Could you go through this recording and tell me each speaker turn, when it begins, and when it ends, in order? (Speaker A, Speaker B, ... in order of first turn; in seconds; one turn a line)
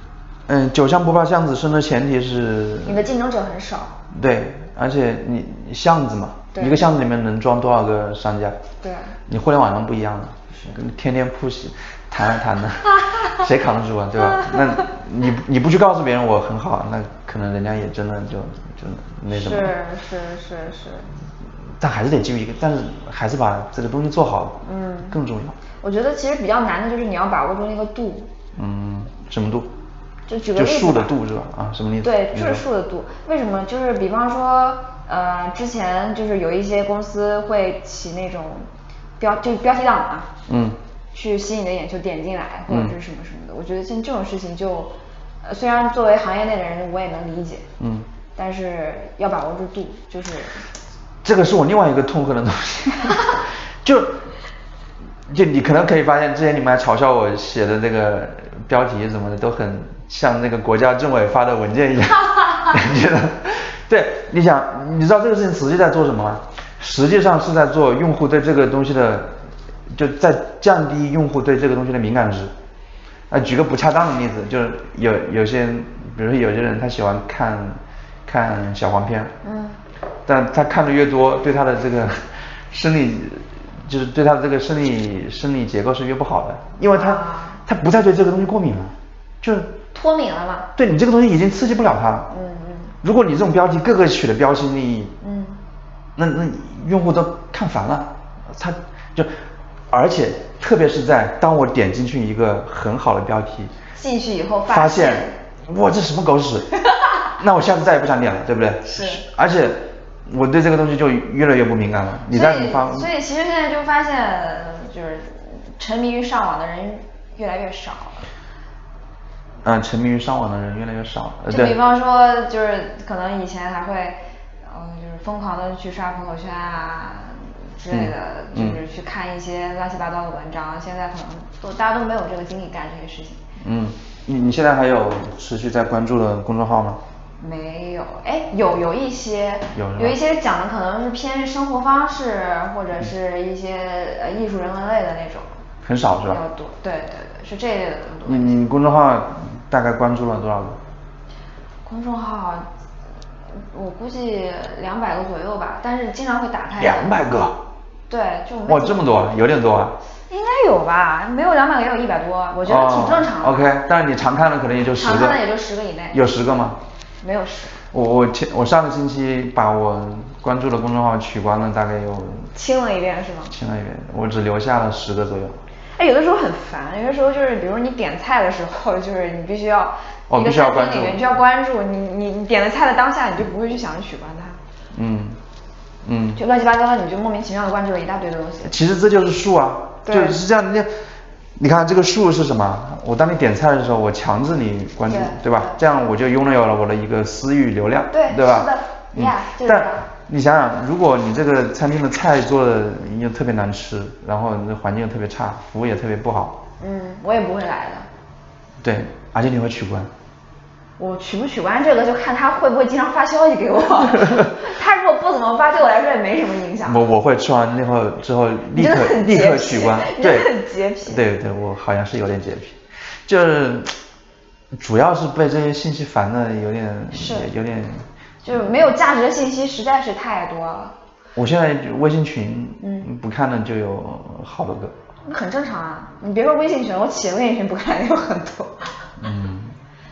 Speaker A: 0.5-3.0
Speaker B: 2.8-4.0
Speaker A: 4.1-8.6
Speaker B: 6.5-6.8
Speaker B: 8.8-9.2
Speaker A: 9.3-19.8
Speaker B: 14.2-15.0
Speaker B: 19.3-21.1
Speaker A: 21.8-25.6
Speaker B: 24.6-25.2
Speaker B: 25.8-28.3
Speaker A: 28.6-29.7
Speaker B: 30.3-31.1
Speaker A: 30.6-32.6
Speaker B: 32.0-40.3
Speaker A: 40.5-40.8
Speaker B: 41.1-47.7
Speaker A: 42.7-43.0
Speaker A: 47.8-48.1
Speaker B: 48.4-50.6
Speaker A: 51.2-54.2
Speaker A: 55.3-69.4
Speaker A: 69.9-72.5
Speaker A: 73.3-79.3
Speaker B: 79.4-79.8
Speaker A: 80.2-89.8
Speaker B: 86.9-87.6
Speaker B: 89.9-90.7
Speaker A: 90.8-92.3
Speaker B: 92.3-92.9
Speaker A: 93.0-95.1
Speaker B: 95.2-95.6
Speaker A: 96.2-99.3
Speaker A: 99.9-103.7
Speaker B: 104.0-105.4
Speaker A: 104.7-106.7
Speaker B: 106.8-107.3
Speaker A: 107.4-113.1
Speaker B: 108.8-109.3
Speaker B: 112.3-118.3
Speaker A: 119.6-121.8
Speaker B: 121.5-133.4
Speaker A: 127.9-128.8
Speaker A: 133.6-137.0
Speaker B: 137.4-145.5
Speaker A: 139.7-140.2
Speaker A: 145.8-146.4
Speaker B: 146.1-148.6
Speaker A: 148.3-150.8
Speaker B: 151.8-152.7
Speaker B: 153.6-157.3
Speaker A: 156.8-157.6
Speaker B: 158.1-159.0
Speaker A: 158.7-160.0
Speaker B: 160.3-163.7
Speaker A: 162.6-165.4
Speaker B: 164.9-166.2
Speaker A: 166.1-166.8
Speaker B: 167.2-167.8
Speaker A: 167.9-172.5
Speaker B: 172.6-173.5
Speaker A: 173.5-175.6
Speaker B: 175.9-184.6
Speaker A: 180.3-181.2
Speaker A: 184.9-185.4
Speaker A: 186.1-186.4
Speaker B: 186.4-188.7
Speaker A: 188.6-190.9
Speaker B: 190.1-190.4
Speaker A: 191.6-206.6
Speaker B: 195.1-195.8
Speaker B: 198.1-200.1
Speaker B: 206.8-208.1
Speaker A: 208.8-210.1
Speaker B: 211.0-217.1
Speaker A: 216.8-223.9
Speaker B: 218.7-221.2
Speaker A: 224.7-228.1
Speaker B: 227.1-227.5
Speaker B: 228.4-230.9
Speaker A: 231.4-234.9
Speaker B: 232.8-233.1
Speaker B: 235.2-239.1
Speaker A: 239.2-239.8